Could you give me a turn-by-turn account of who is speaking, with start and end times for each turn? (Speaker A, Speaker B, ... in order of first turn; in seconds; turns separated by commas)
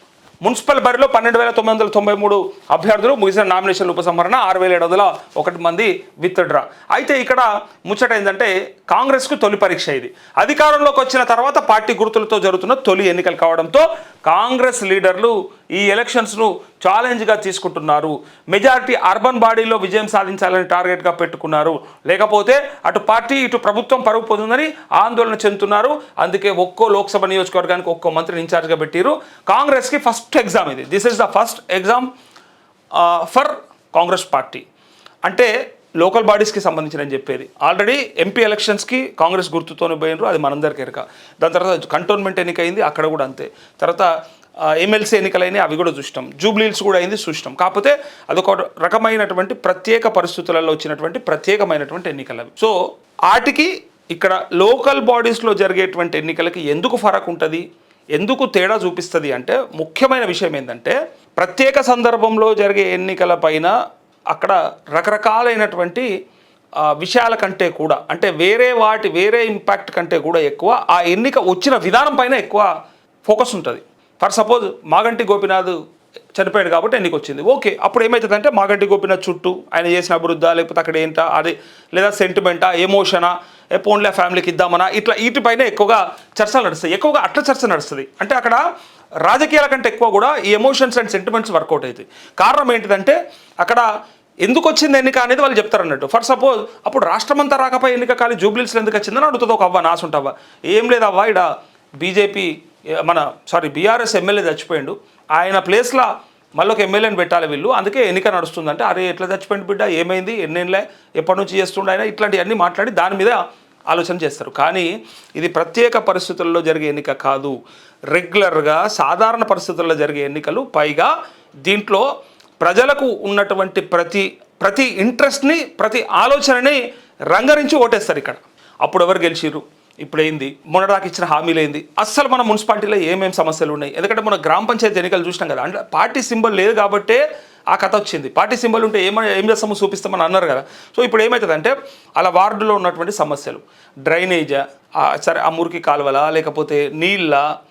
Speaker A: 0.4-32.1, Speaker A: 33.0-34.6, Speaker A: 35.2-44.1, Speaker A: 44.8-52.7, Speaker A: 53.3-57.6, Speaker A: 58.2-63.7, Speaker A: 64.3-66.1, Speaker A: 66.8-72.7, Speaker A: 73.2-75.8, Speaker A: 76.3-88.6, Speaker A: 89.2-93.8, Speaker A: 94.4-101.5, Speaker A: 102.0-102.5, Speaker A: 103.0-113.4, Speaker A: 113.9-117.5, Speaker A: 118.1-121.1, Speaker A: 121.6-122.0, Speaker A: 122.6-126.8, Speaker A: 127.3-137.2, Speaker A: 137.7-147.4